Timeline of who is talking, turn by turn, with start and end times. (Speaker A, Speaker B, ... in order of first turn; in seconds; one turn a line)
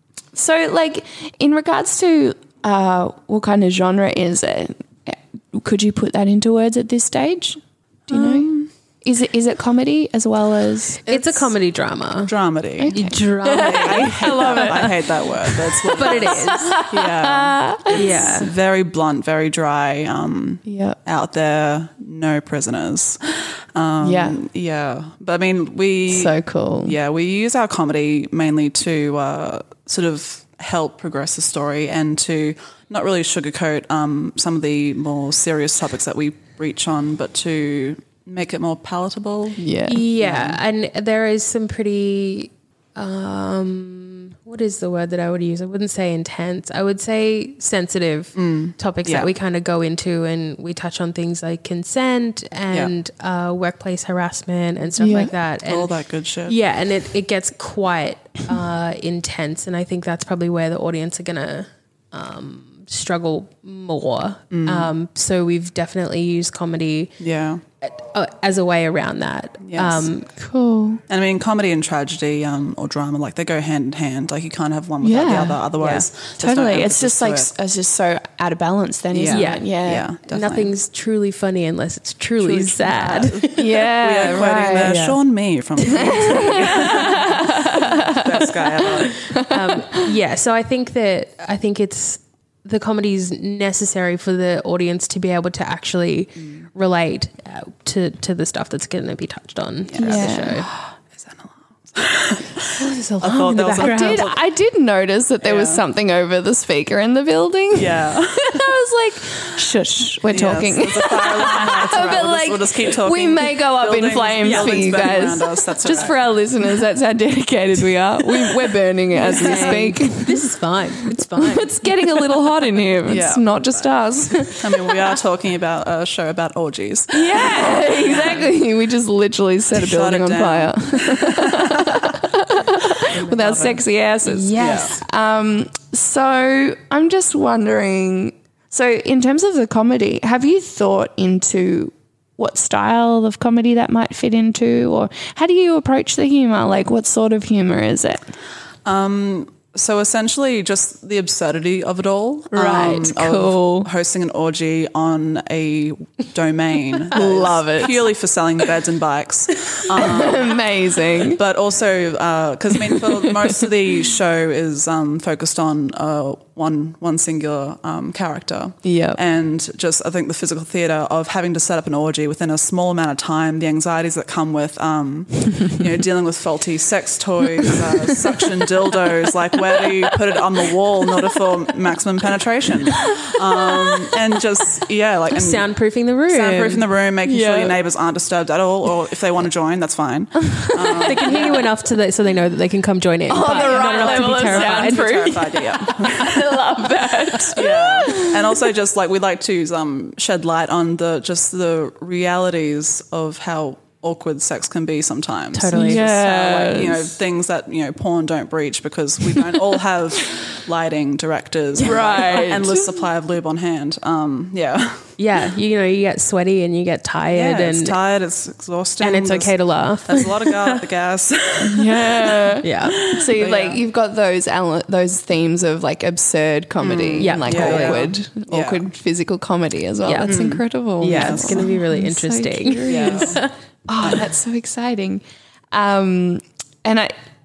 Speaker A: 0.3-11.0
Speaker B: 8.1-8.6
Speaker B: 11.1-11.5
Speaker C: 11.1-12.3
Speaker B: 12.3-12.9
Speaker A: 12.8-18.3
Speaker C: 12.9-14.9
Speaker B: 13.5-39.6
Speaker C: 15.9-16.8
Speaker C: 17.9-18.5
Speaker A: 20.7-21.0
Speaker A: 24.0-24.4
Speaker A: 26.1-27.0
Speaker A: 39.6-40.0
Speaker C: 39.9-55.9
Speaker B: 40.2-40.6
Speaker B: 48.4-49.3
Speaker A: 55.0-55.3
Speaker B: 55.6-56.6
Speaker C: 56.5-67.1
Speaker B: 64.5-64.9
Speaker B: 67.2-67.6
Speaker C: 67.8-70.3
Speaker B: 69.6-70.1
Speaker A: 70.4-71.0
Speaker B: 71.1-77.5
Speaker A: 75.0-75.7
Speaker C: 75.8-76.0
Speaker A: 76.4-80.1
Speaker B: 79.1-80.7
Speaker C: 79.3-79.7
Speaker C: 80.3-83.7
Speaker B: 82.4-89.2
Speaker A: 83.6-85.1
Speaker C: 84.8-85.2
Speaker C: 85.8-87.1
Speaker A: 85.8-90.0
Speaker C: 89.3-100.7
Speaker B: 99.9-102.7
Speaker A: 100.0-100.7
Speaker C: 102.8-104.3
Speaker B: 103.2-104.4
Speaker A: 103.5-120.4
Speaker B: 105.4-105.8
Speaker B: 107.7-108.7
Speaker B: 110.2-116.2
Speaker C: 114.4-115.3
Speaker C: 119.2-122.4
Speaker B: 119.2-120.0
Speaker A: 121.4-125.2
Speaker B: 123.1-123.9
Speaker B: 124.6-128.4
Speaker A: 127.1-148.2
Speaker C: 127.8-128.4
Speaker B: 129.8-132.2
Speaker C: 133.1-135.0
Speaker B: 134.6-134.9
Speaker B: 148.8-160.6
Speaker A: 152.5-153.9
Speaker C: 152.7-153.0
Speaker A: 157.1-157.9
Speaker A: 159.9-161.4
Speaker B: 161.2-185.7
Speaker A: 162.9-163.7
Speaker A: 168.8-169.2
Speaker A: 182.9-184.1
Speaker C: 185.3-186.8
Speaker B: 186.3-191.7
Speaker A: 187.2-187.8
Speaker A: 190.8-191.3
Speaker C: 191.0-195.2
Speaker A: 193.3-198.7
Speaker B: 193.4-196.7
Speaker B: 197.4-215.1
Speaker C: 205.5-206.0
Speaker A: 205.7-207.2
Speaker A: 211.8-212.9
Speaker C: 215.2-218.0
Speaker B: 217.3-219.5
Speaker C: 219.0-220.8
Speaker B: 220.1-223.8
Speaker A: 221.6-237.1
Speaker C: 222.6-223.0
Speaker B: 226.8-228.8
Speaker C: 227.2-228.1
Speaker C: 230.1-230.4
Speaker B: 230.2-231.8
Speaker C: 231.0-233.5
Speaker B: 232.9-233.4